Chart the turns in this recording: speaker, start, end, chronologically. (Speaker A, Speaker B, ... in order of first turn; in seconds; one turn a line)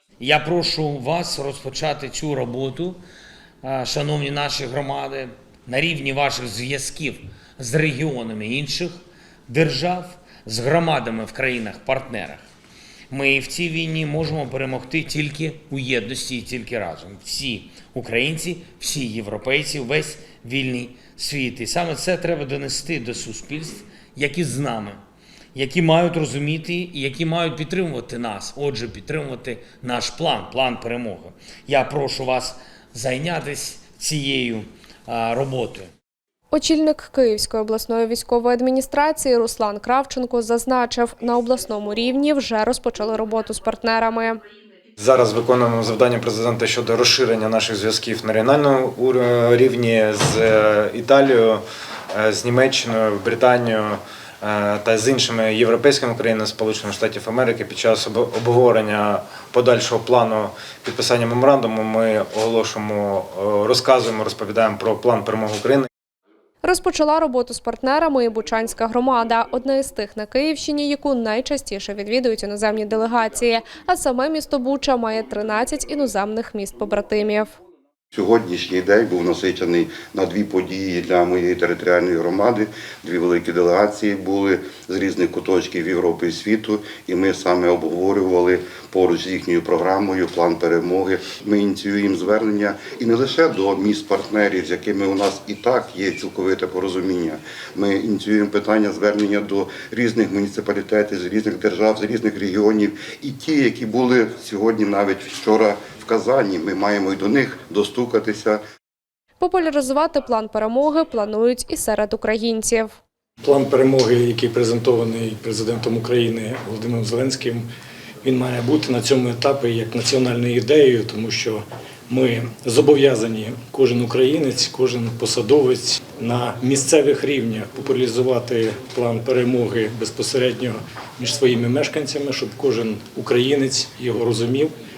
Speaker A: 0.2-3.0
Speaker A: 3.6-12.4
Speaker A: 13.1-25.0
Speaker A: 25.6-35.9
Speaker B: 36.5-44.4
Speaker C: 45.0-51.6
Speaker C: 52.1-65.9
Speaker B: 66.6-77.5
Speaker D: 78.1-108.6
Speaker B: 109.4-113.0
Speaker E: 113.4-117.7
Speaker E: 118.2-134.7